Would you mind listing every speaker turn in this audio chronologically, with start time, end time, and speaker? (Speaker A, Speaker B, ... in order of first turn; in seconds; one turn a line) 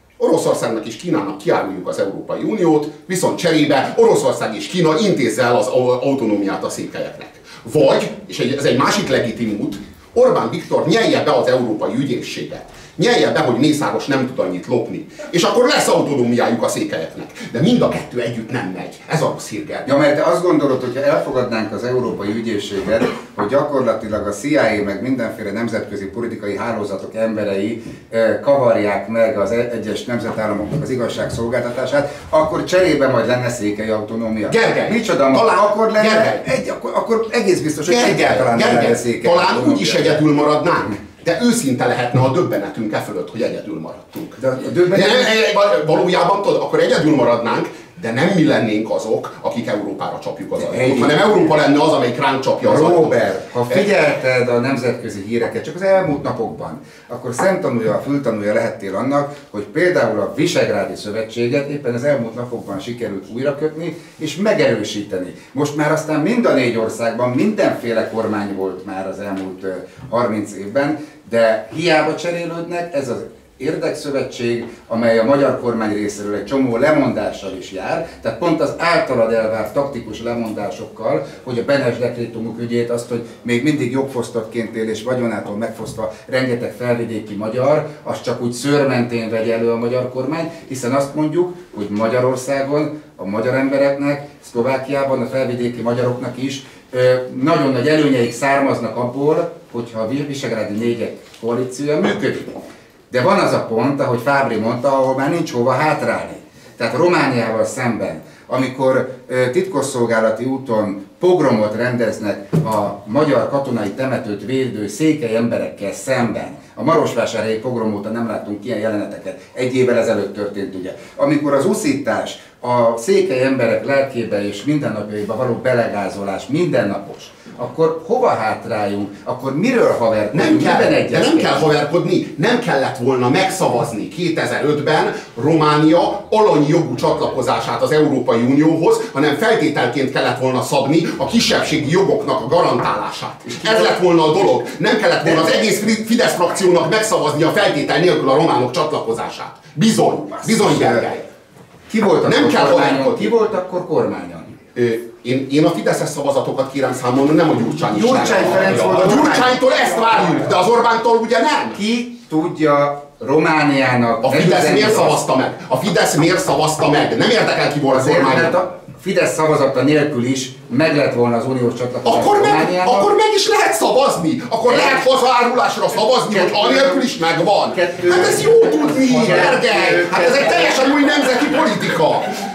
Speaker A: 0.2-19.9
Speaker B: 19.9-40.2
Speaker A: 34.5-36.5
Speaker A: 37.9-53.9
Speaker B: 44.4-45.4
Speaker B: 50.6-51.5
Speaker B: 52.6-131.7
Speaker A: 130.3-151.3
Speaker B: 145.2-145.6
Speaker B: 150.4-151.1
Speaker B: 151.9-154.6
Speaker A: 152.2-153.3
Speaker A: 154.8-161.8
Speaker B: 157.9-159.7
Speaker B: 161.8-165.2
Speaker A: 164.2-168.6
Speaker B: 167.9-173.1
Speaker A: 172.0-182.4
Speaker B: 174.7-175.0
Speaker B: 176.3-177.1
Speaker B: 177.7-180.8